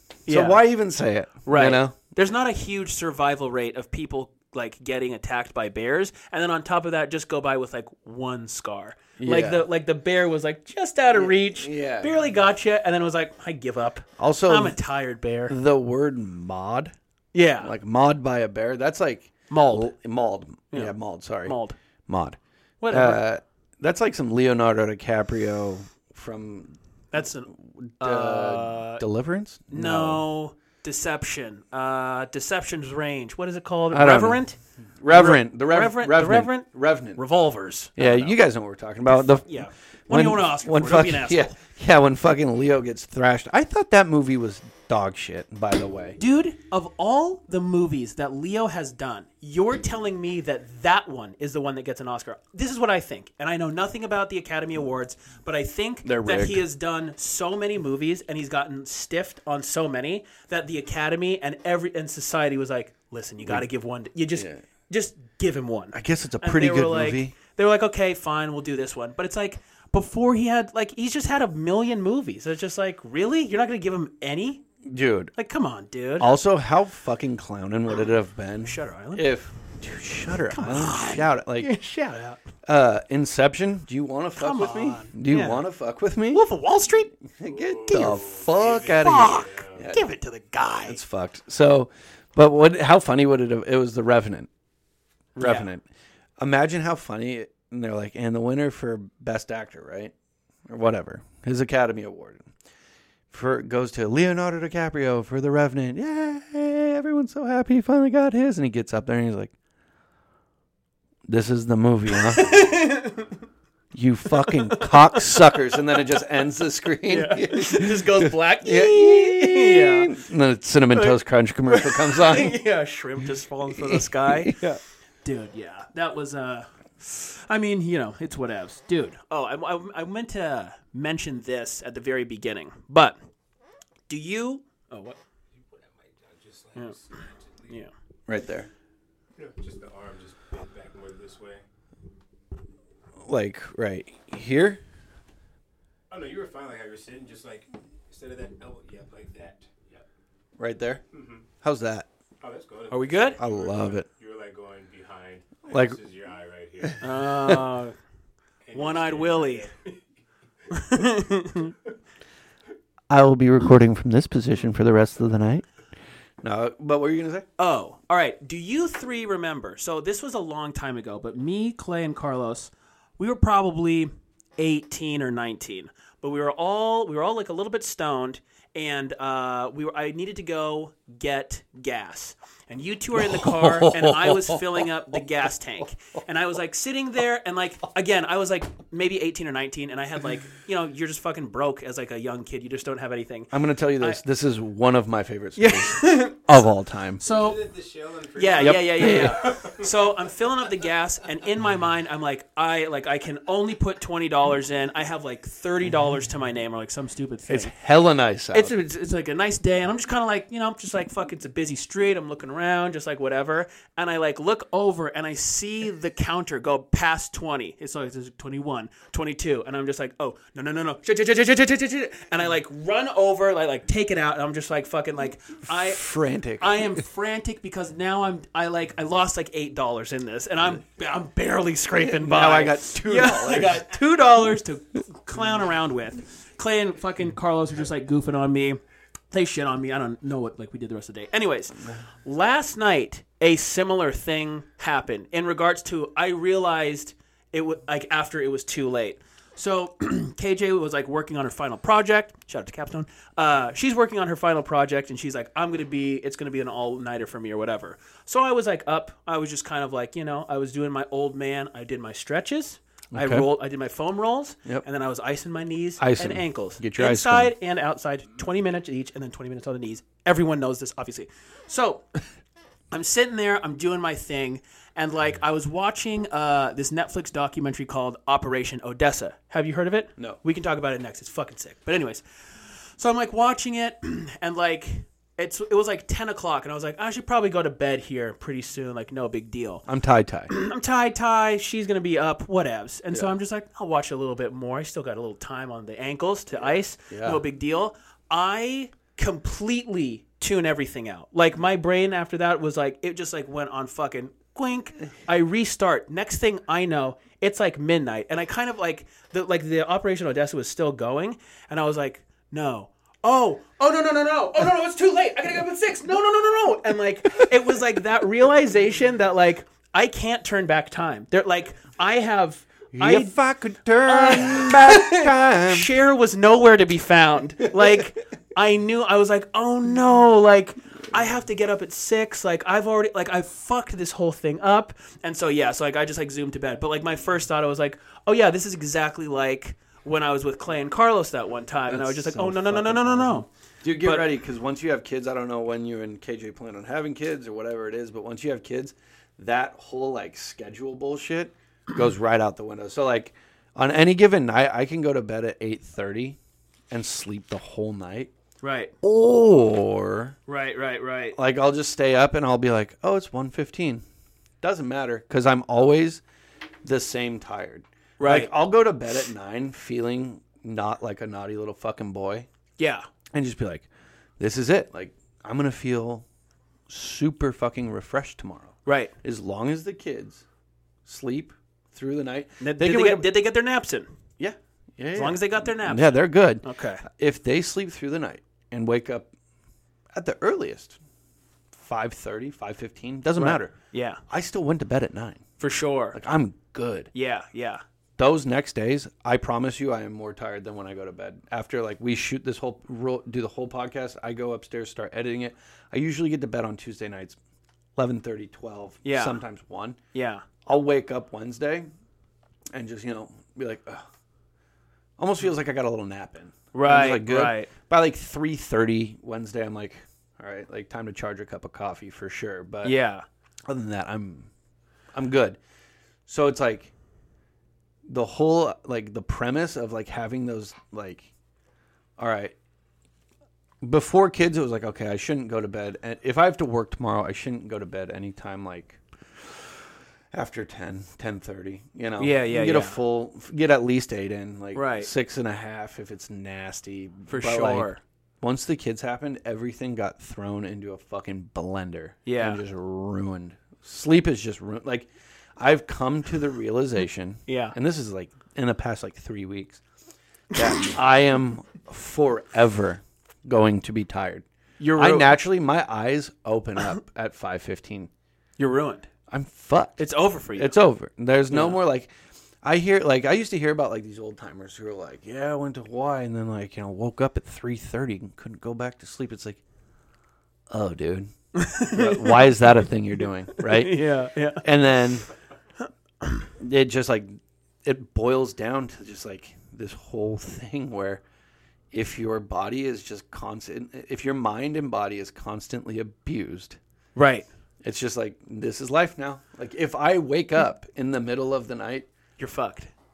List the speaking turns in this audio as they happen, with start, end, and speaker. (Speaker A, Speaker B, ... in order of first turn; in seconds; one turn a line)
Speaker A: 0.2-1.9
Speaker B: 0.3-0.6
Speaker B: 1.4-15.6
Speaker A: 9.2-9.6
Speaker A: 11.1-12.1
Speaker A: 14.2-14.8
Speaker A: 15.5-16.9
Speaker B: 17.3-17.7
Speaker A: 17.6-22.4
Speaker B: 19.5-19.9
Speaker B: 20.7-21.8
Speaker B: 22.8-23.2
Speaker A: 22.9-26.7
Speaker B: 27.1-29.0
Speaker A: 27.6-30.2
Speaker B: 29.7-34.6
Speaker A: 33.9-34.4
Speaker A: 35.0-37.2
Speaker B: 35.1-38.4
Speaker A: 38.0-46.2
Speaker B: 39.0-41.5
Speaker B: 46.2-74.6
Speaker A: 56.0-56.6
Speaker A: 64.3-64.6
Speaker A: 65.9-67.4
Speaker A: 74.8-75.3
Speaker B: 75.3-76.3
Speaker A: 76.2-81.7
Speaker B: 78.6-79.3
Speaker B: 80.5-82.4
Speaker A: 82.7-86.5
Speaker B: 84.4-85.6
Speaker B: 86.3-87.1
Speaker A: 87.2-90.0
Speaker C: 87.5-89.8
Speaker B: 87.9-88.2
Speaker B: 88.8-91.0
Speaker A: 90.9-94.5
Speaker A: 95.4-95.8
Speaker B: 95.4-95.7
Speaker A: 96.4-100.1
Speaker A: 100.7-102.5
Speaker A: 103.3-109.5
Speaker A: 111.3-112.6
Speaker B: 112.2-113.3
Speaker A: 113.9-122.6
Speaker B: 114.7-115.4
Speaker B: 117.1-120.1
Speaker B: 121.7-124.6
Speaker A: 123.7-124.8
Speaker B: 125.2-133.2
Speaker B: 134.1-135.2
Speaker C: 135.6-137.8
Speaker A: 138.3-138.7
Speaker C: 139.4-141.6
Speaker A: 143.2-144.8
Speaker C: 146.1-150.0
Speaker A: 150.6-151.0
Speaker C: 151.1-151.5
Speaker A: 151.6-152.1
Speaker C: 152.4-157.1
Speaker B: 152.9-153.4
Speaker A: 153.4-154.1
Speaker A: 155.7-156.0
Speaker B: 157.0-157.9
Speaker C: 158.7-160.0
Speaker B: 158.7-159.7
Speaker B: 160.7-161.7
Speaker A: 163.1-165.7
Speaker A: 166.4-167.5
Speaker B: 167.6-194.2
Speaker A: 183.2-184.8
Speaker A: 193.5-197.2
Speaker B: 195.6-196.4
Speaker B: 197.2-197.6
Speaker C: 197.2-199.9
Speaker B: 198.4-207.7
Speaker A: 198.6-199.4
Speaker A: 207.5-208.8
Speaker B: 208.5-226.1
Speaker A: 225.7-226.9
Speaker B: 226.6-238.8
Speaker A: 232.0-233.8
Speaker B: 239.3-272.1
Speaker A: 263.1-263.5
Speaker A: 266.0-267.5
Speaker B: 272.9-282.2
Speaker B: 283.0-289.9
Speaker A: 289.9-290.5
Speaker B: 290.5-323.4
Speaker A: 293.1-293.4
Speaker A: 297.1-297.4
Speaker A: 322.9-325.9
Speaker B: 324.0-343.5
Speaker A: 341.9-356.4
Speaker B: 344.0-344.3
Speaker A: 356.9-358.3
Speaker B: 358.6-358.9
Speaker A: 359.0-360.4
Speaker B: 360.5-361.4
Speaker A: 361.4-364.0
Speaker A: 364.6-366.2
Speaker A: 366.8-372.5
Speaker B: 368.2-368.5
Speaker B: 372.8-373.1
Speaker A: 373.3-373.9
Speaker A: 374.4-376.2
Speaker A: 376.9-380.4
Speaker B: 378.9-379.1
Speaker A: 381.1-383.3
Speaker B: 382.6-384.1
Speaker A: 384.4-389.3
Speaker B: 385.1-387.0
Speaker A: 390.1-391.0
Speaker A: 391.7-393.7
Speaker B: 393.4-394.2
Speaker A: 394.3-395.4
Speaker B: 395.6-396.2
Speaker A: 396.1-397.1
Speaker B: 397.1-397.8
Speaker A: 398.2-407.4
Speaker A: 408.0-410.0
Speaker B: 409.1-409.4
Speaker B: 410.1-410.4
Speaker A: 410.6-411.9
Speaker A: 412.7-414.1
Speaker A: 415.2-423.0
Speaker B: 416.7-417.7
Speaker B: 422.8-423.2
Speaker A: 423.7-424.5
Speaker A: 425.1-425.6
Speaker A: 426.3-426.9
Speaker A: 428.1-431.3
Speaker A: 432.2-432.6
Speaker A: 433.8-439.0
Speaker A: 440.3-459.8
Speaker B: 442.2-443.0
Speaker B: 444.7-445.1
Speaker B: 447.3-448.0
Speaker B: 452.2-452.6
Speaker B: 457.5-457.8
Speaker A: 460.5-464.4
Speaker B: 464.8-465.4
Speaker A: 465.0-468.1
Speaker B: 468.6-469.1
Speaker A: 469.3-472.1
Speaker B: 470.0-470.8
Speaker B: 471.5-471.8
Speaker A: 472.6-479.6
Speaker A: 480.7-481.3
Speaker B: 481.6-482.5
Speaker A: 481.8-484.0
Speaker B: 483.6-484.6
Speaker A: 484.6-485.2
Speaker A: 486.6-491.2
Speaker A: 491.9-496.8
Speaker B: 497.1-497.5
Speaker A: 497.8-502.1
Speaker B: 502.4-502.9